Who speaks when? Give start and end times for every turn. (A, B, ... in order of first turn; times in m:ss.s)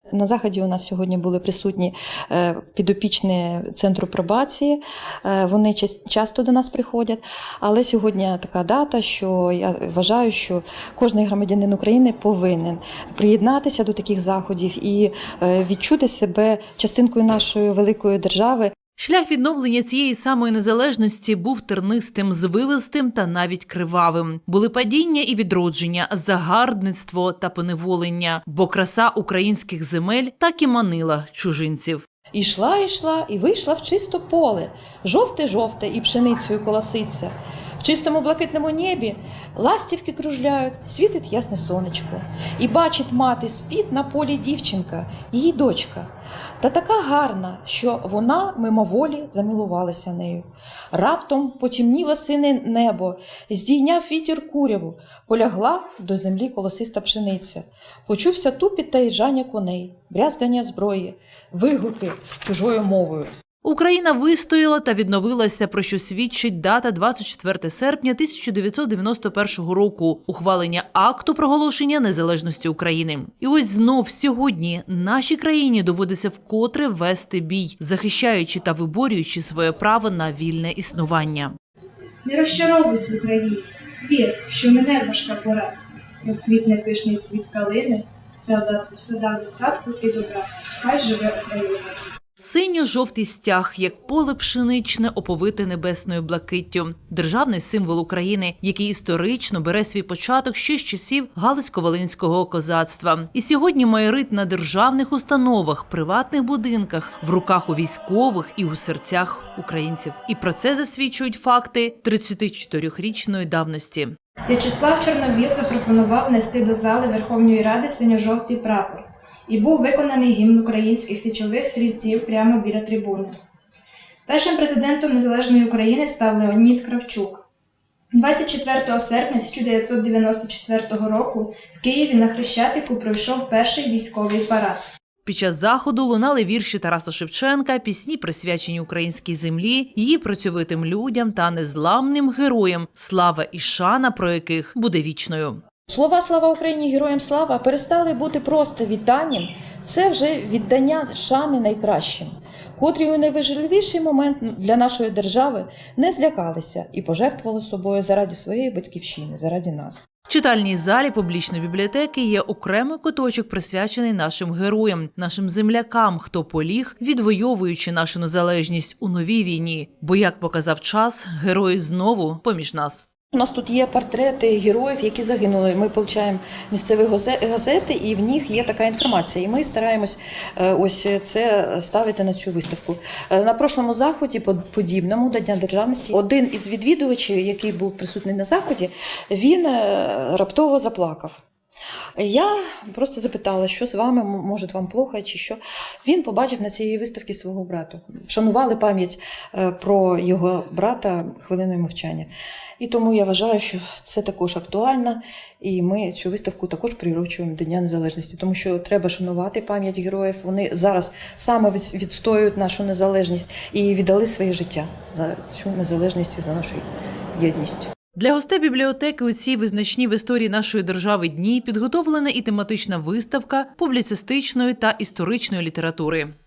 0:00.1-0:18.7 A
0:19.0-0:32.0 B
0:32.3-0:46.1 A
0:46.6-1:03.3 A
1:03.6-1:21.5 B
1:22.2-1:32.1 C
1:32.4-1:54.1 B
1:54.5-2:03.4 C
2:04.3-2:07.4 C
2:08.1-2:14.8 C
2:15.2-2:25.6 B
2:25.9-2:40.0 A
2:40.3-2:53.0 B
2:53.3-3:11.4 A
3:12.2-3:37.9 A
3:38.2-3:46.3 B